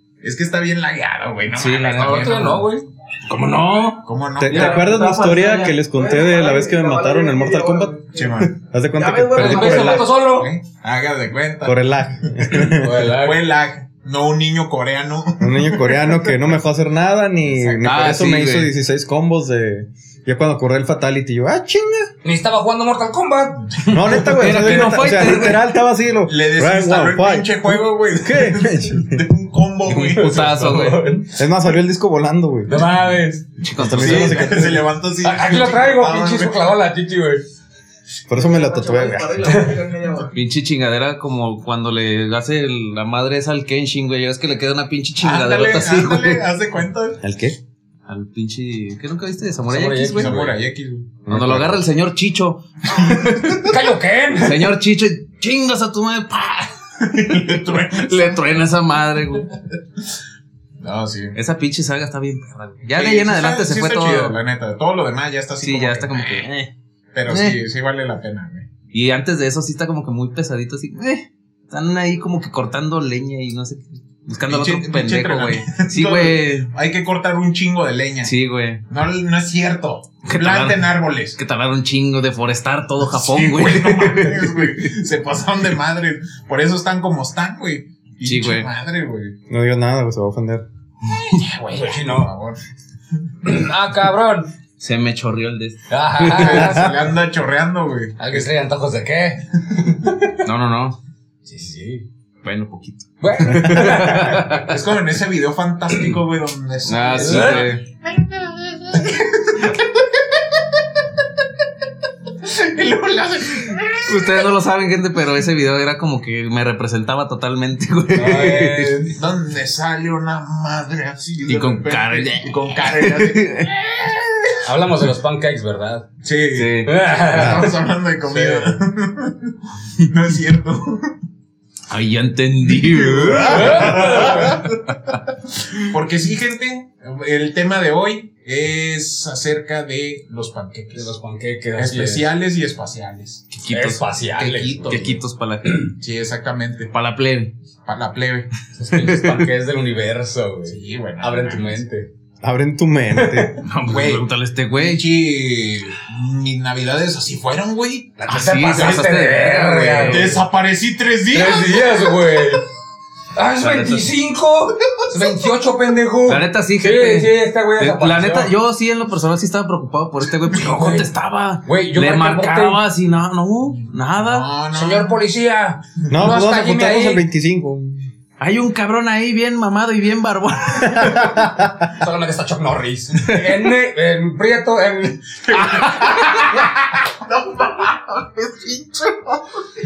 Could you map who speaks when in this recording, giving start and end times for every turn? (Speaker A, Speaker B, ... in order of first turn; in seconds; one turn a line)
Speaker A: 0.2-2.6
Speaker B: 1.5-5.7
Speaker C: 2.1-2.8
Speaker A: 4.0-4.9
Speaker D: 4.4-10.1
Speaker E: 4.5-10.2
Speaker A: 8.1-8.5
Speaker C: 9.3-10.5
Speaker A: 10.2-16.5
Speaker D: 11.6-13.0
Speaker C: 12.8-13.4
Speaker D: 15.4-22.1
Speaker B: 17.8-18.7
Speaker C: 22.2-23.9
Speaker A: 23.7-24.0
Speaker D: 23.9-29.2
Speaker B: 24.2-25.7
Speaker C: 24.5-25.0
Speaker A: 26.2-30.6
Speaker B: 29.9-31.1
Speaker C: 30.1-31.3
Speaker D: 31.3-32.8
Speaker C: 32.7-33.5
Speaker B: 33.6-34.6
Speaker D: 33.8-34.8
Speaker A: 34.0-36.6
Speaker C: 34.0-34.6
Speaker C: 35.2-37.4
Speaker D: 38.3-39.6
Speaker E: 38.3-40.3
Speaker C: 39.4-39.8
Speaker B: 40.3-46.4
Speaker A: 45.2-47.2
Speaker D: 47.2-47.6
Speaker B: 48.1-50.5
Speaker C: 49.7-50.5
Speaker A: 50.1-51.2
Speaker D: 51.3-51.8
Speaker B: 51.3-52.6
Speaker A: 52.9-53.6
Speaker C: 53.5-54.7
Speaker B: 54.4-56.7
Speaker A: 57.0-58.6
Speaker B: 57.5-59.5
Speaker A: 60.8-61.4
Speaker B: 61.3-64.4
Speaker A: 62.9-66.5
Speaker B: 65.6-66.7
Speaker A: 67.1-68.7
Speaker B: 67.2-67.6
Speaker B: 68.9-76.7
Speaker A: 74.5-78.3
Speaker B: 78.2-78.8
Speaker A: 78.9-81.4
Speaker B: 80.2-84.9
Speaker A: 83.1-89.3
Speaker B: 88.2-88.7
Speaker D: 89.5-90.6
Speaker A: 91.0-92.6
Speaker C: 91.7-92.3
Speaker C: 93.4-94.5
Speaker B: 94.8-96.8
Speaker C: 95.9-96.9
Speaker A: 96.4-98.5
Speaker C: 98.2-100.1
Speaker B: 100.4-101.0
Speaker C: 101.4-102.0
Speaker B: 102.4-104.7
Speaker C: 103.2-104.5
Speaker A: 104.0-110.6
Speaker B: 106.8-107.8
Speaker C: 107.2-107.7
Speaker A: 112.4-114.5
Speaker B: 114.0-119.1
Speaker C: 118.1-118.9
Speaker A: 118.1-124.5
Speaker B: 121.4-124.1
Speaker C: 124.6-126.0
Speaker A: 126.2-131.1
Speaker B: 126.5-127.0
Speaker C: 126.8-128.7
Speaker B: 131.9-134.7
Speaker A: 132.6-134.7
Speaker C: 133.4-134.6
Speaker A: 135.7-141.1
Speaker C: 140.9-142.2
Speaker A: 141.8-143.5
Speaker B: 143.5-144.0
Speaker C: 143.7-145.2
Speaker A: 144.3-145.2
Speaker B: 144.9-145.9
Speaker A: 146.0-146.9
Speaker B: 146.9-147.5
Speaker A: 147.8-148.5
Speaker C: 148.7-152.1
Speaker B: 149.0-149.4
Speaker A: 150.7-151.8
Speaker D: 152.4-153.6
Speaker C: 153.1-153.6
Speaker B: 153.6-155.1
Speaker A: 153.8-154.2
Speaker A: 154.8-159.1
Speaker C: 158.2-160.4
Speaker B: 158.3-160.4
Speaker A: 160.1-162.4
Speaker C: 161.3-162.6
Speaker C: 163.3-168.5
Speaker B: 163.6-164.1
Speaker B: 166.3-174.5
Speaker C: 170.5-171.1
Speaker C: 171.6-172.8
Speaker A: 174.2-175.2
Speaker C: 174.7-177.2
Speaker D: 176.1-178.1
Speaker B: 178.4-181.2
Speaker D: 180.8-181.8
Speaker C: 181.9-186.7
Speaker A: 185.5-189.4